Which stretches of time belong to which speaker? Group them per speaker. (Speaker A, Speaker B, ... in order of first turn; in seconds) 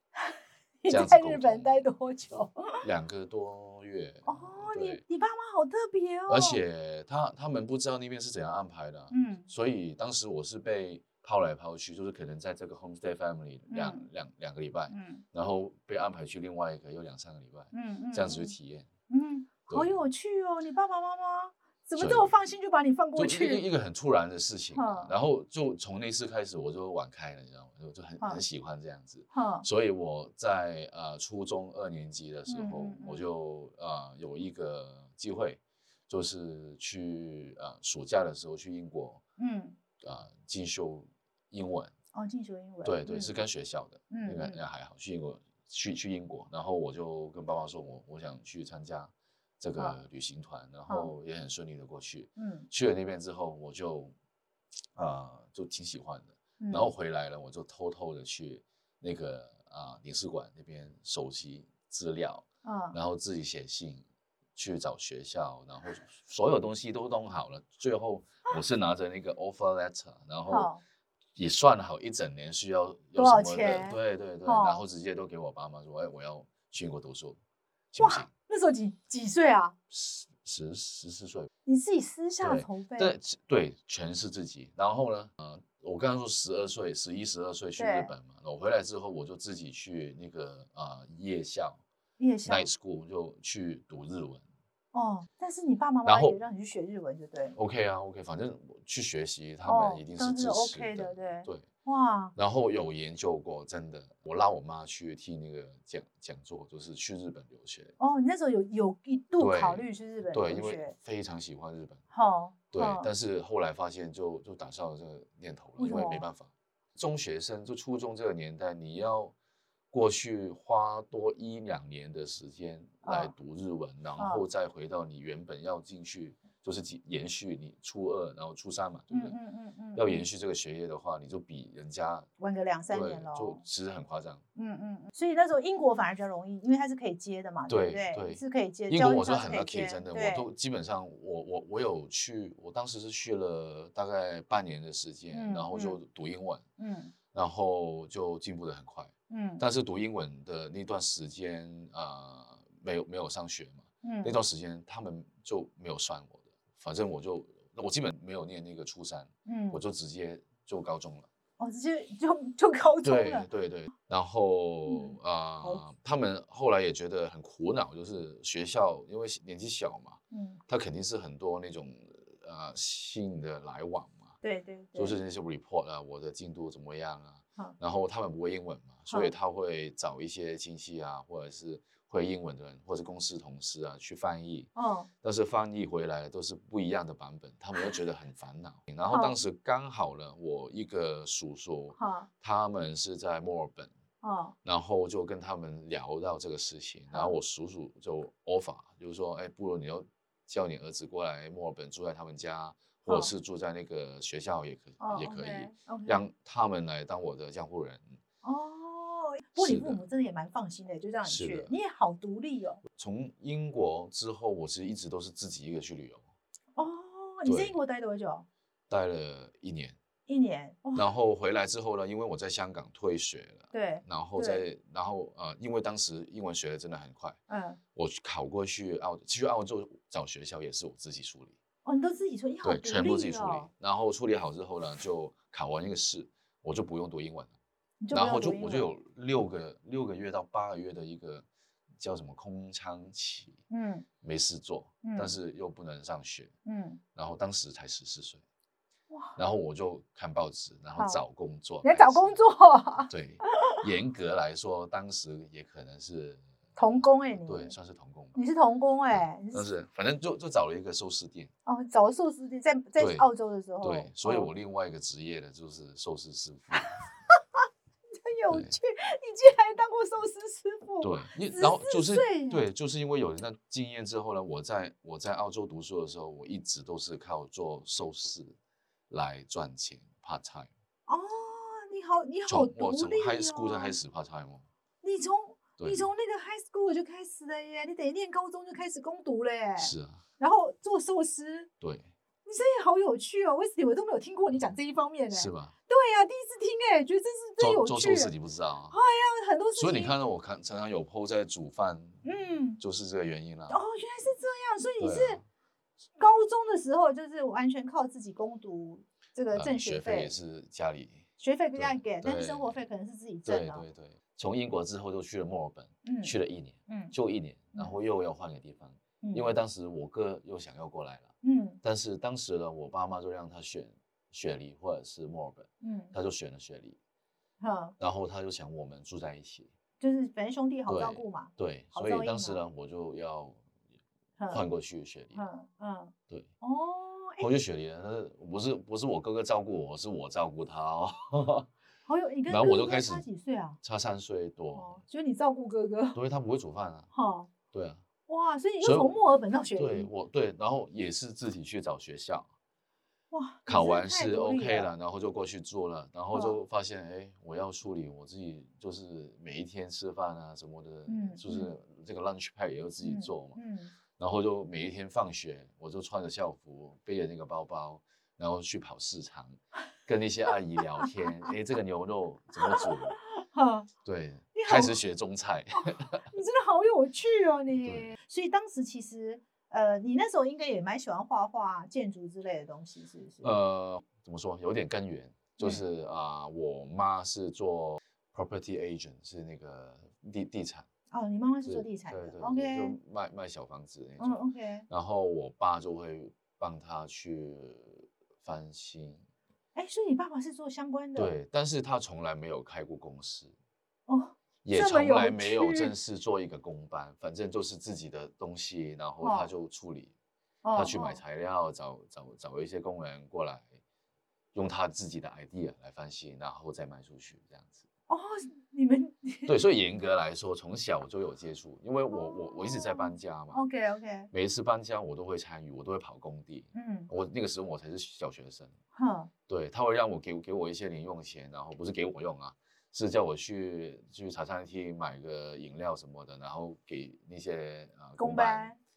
Speaker A: 0.2-2.8, 4.3-6.6, 9.1-9.5, 13.7-14.1, 14.9-15.2, 17.7-18.5, 19.1-23.6, 24.7-25.1, 29.3-29.7, 32.5-33.3, 39.4-39.8, 42.1-43.4, 44.1-44.6, 50.9-51.1, 52.4-52.7, 56.6-56.9, 62.6-63.0, 70.5-70.8, 73.2-74.8, 78.0-79.8, 81.7-83.2, 87.8-88.1, 92.2-92.7, 94.9-97.6, 99.6-102.3, 108.0-111.0, 112.1-113.1, 115.8-116.2, 123.0-123.3, 124.2-124.4, 129.1-130.3, 132.4-133.6, 134.6-140.5, 145.3-146.0, 146.8-147.1, 149.3-149.7, 154.0-154.4, 159.5-159.8, 161.6-163.5, 164.9-165.9, 170.3-170.6, 174.4-175.2, 184.8-185.1, 189.1-189.4, 192.0-192.3, 194.2-194.6, 197.1-197.4, 203.1-203.3, 205.0-206.2, 208.4-212.8, 216.8-218.5, 220.3-221.1, 223.7-224.7, 227.5-227.8, 231.8-233.7, 238.0-238.9, 243.7-244.1, 245.0-245.4, 246.7-247.0, 249.1-249.4, 251.0-251.2, 251.8-253.8, 256.8-257.8, 258.4-259.7, 261.7-264.5, 268.2-272.6, 281.1-284.0, 285.0-291.7, 292.4-298.3, 298.9-300.1, 302.2-302.8, 303.7-305.4, 306.2-310.3, 311.4-313.9, 316.0-316.4, 316.9-317.1, 319.2-319.6, 321.4-321.8, 325.8-326.1, 327.6-327.9, 330.0-332.6, 334.4-334.7, 335.3-337.5, 342.1-343.8, 344.7-346.2, 347.1-347.5, 348.3-350.1, 353.3-354.9, 356.3-356.6, 361.1-361.7, 363.0-363.9, 371.0-371.5, 372.6-373.9, 374.5-375.0, 376.3-383.6, 391.1-393.0, 394.2-394.9, 399.8-401.4, 404.1-405.9, 409.2-409.5, 410.6-411.2, 418.1-419.6, 422.1-424.3, 426.8-427.1, 428.9-429.3, 438.2-438.8
Speaker B: 0.9-1.8, 2.8-5.0, 6.3-18.9, 19.7-20.0, 22.0-22.3, 23.2-39.2, 40.0-41.9, 42.8-54.1, 55.0-64.0, 64.6-70.7, 71.4-77.4, 77.9-78.3, 79.9-81.5, 82.4-91.8, 92.5-94.4, 96.1-96.4, 97.5-101.7, 102.4-107.9, 109.4-112.0, 112.7-119.3, 119.9-129.4, 129.9-132.3, 132.9-134.4, 137.7-146.6, 147.3-161.3, 163.0-174.3, 174.9-184.7, 185.2-193.9, 194.7-208.2, 209.6-210.0, 211.3-211.7, 212.9-216.2, 217.4-217.8, 218.9-220.0, 220.9-227.4, 227.9-231.6, 232.6-237.5, 238.1-241.4, 242.0-243.6, 244.2-246.5, 247.2-248.4, 249.4-252.4, 253.1-258.4, 259.5-261.5, 263.0-263.2, 263.8-267.0, 271.0-278.6, 279.1-280.7, 282.5-284.7, 285.8-286.1, 289.8-290.2, 291.8-292.1, 295.3-295.7, 297.6-299.0, 299.8-302.2, 302.8-303.8, 305.0-305.4, 309.5-312.8, 313.4-327.0, 328.0-329.7, 330.9-333.6, 334.5-335.4, 337.4-341.7, 342.5-343.3, 343.8-345.0, 346.1-347.1, 347.7-348.0, 348.8-349.2, 349.8-352.5, 353.7-363.6, 364.2-373.2, 374.1-376.3, 377.8-378.1, 383.4-390.9, 391.6-399.2, 401.2-403.5, 404.6-410.1, 410.8-413.8, 414.5-417.8, 419.5-423.6, 424.3-428.8, 429.5-438.7